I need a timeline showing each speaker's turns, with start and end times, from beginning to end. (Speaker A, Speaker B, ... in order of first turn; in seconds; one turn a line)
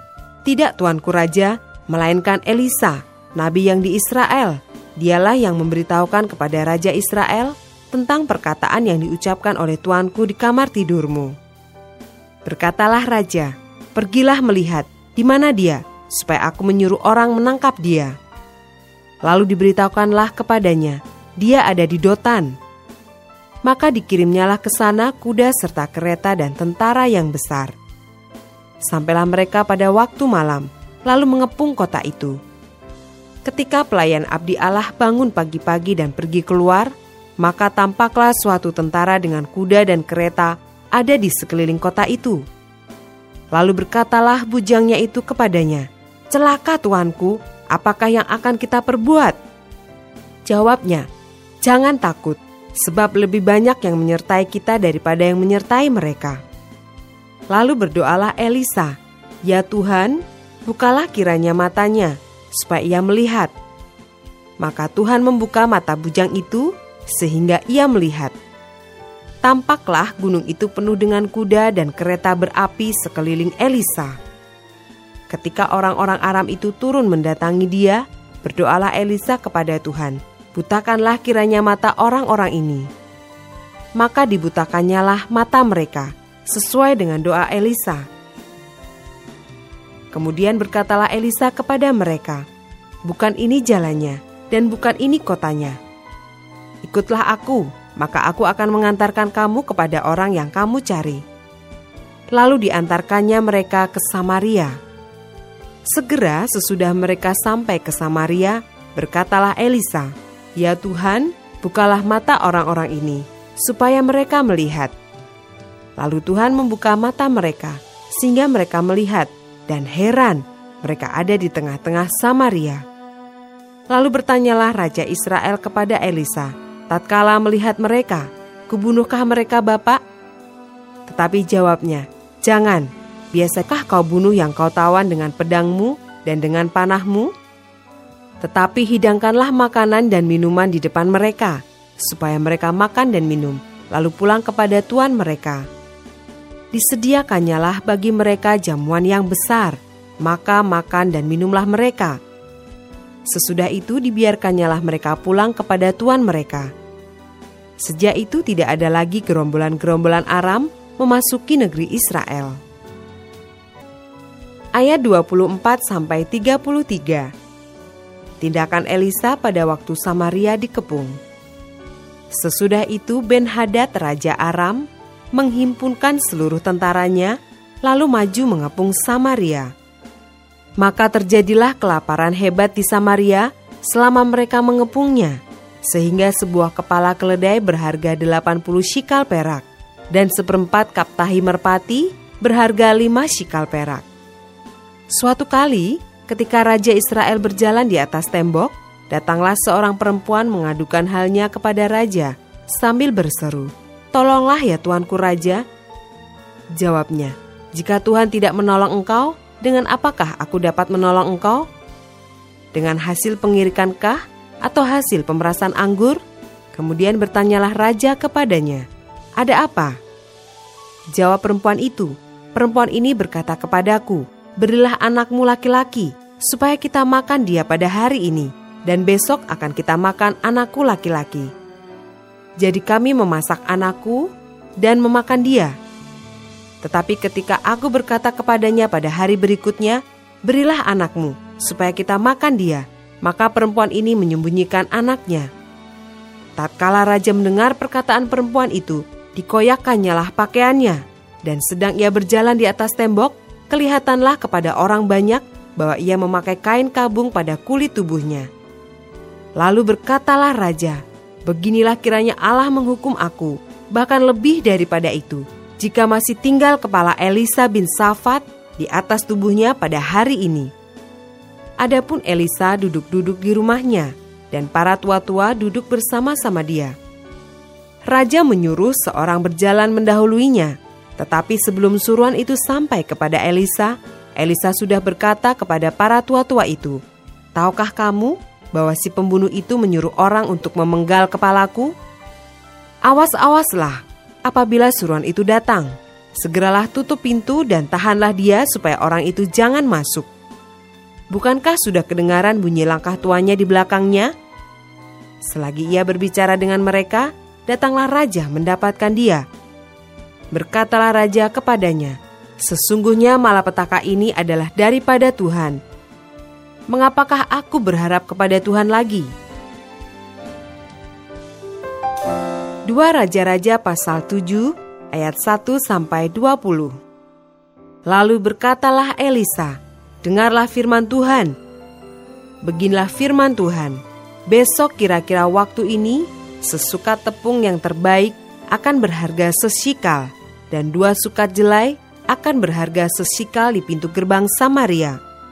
Speaker A: 0.4-11.3
Speaker A: 12.4-18.1
Speaker A: 19.2-22.5
Speaker A: 23.6-27.7
Speaker A: 28.9-32.4
Speaker A: 33.5-42.4
Speaker A: 43.5-49.4
Speaker A: 50.5-51.1
Speaker A: 51.6-56.4
Speaker A: 57.5-63.5
Speaker A: 64.6-68.3
Speaker A: 69.4-74.2
Speaker A: 75.3-82.9
Speaker A: 84.0-88.0
Speaker A: 90.1-92.4
Speaker A: 93.0-95.8
Speaker A: 96.8-101.2
Speaker A: 102.3-104.7
Speaker A: 105.9-114.9
Speaker A: 116.0-122.8
Speaker A: 123.9-130.0
Speaker A: 131.1-137.3
Speaker A: 138.4-145.7
Speaker A: 146.7-152.2
Speaker A: 153.3-156.7
Speaker A: 157.8-162.6
Speaker A: 164.8-167.3
Speaker A: 168.4-171.1
Speaker A: 172.3-179.7
Speaker A: 180.8-194.0
Speaker A: 195.1-205.6
Speaker A: 206.8-211.7
Speaker A: 212.7-216.2
Speaker A: 216.7-218.8
Speaker A: 219.4-220.0
Speaker A: 221.1-231.5
Speaker A: 232.6-234.3
Speaker A: 234.8-235.7
Speaker A: 236.8-245.5
Speaker A: 246.6-258.5
Speaker A: 259.6-270.7
Speaker A: 271.8-276.9
Speaker A: 278.1-287.0
Speaker A: 287.6-291.9
Speaker A: 293.1-300.3
Speaker A: 301.3-304.3
Speaker A: 305.5-309.4
Speaker A: 310.5-315.8
Speaker A: 316.9-319.3
Speaker A: 322.9-326.9
Speaker A: 328.1-331.5
Speaker A: 332.6-345.2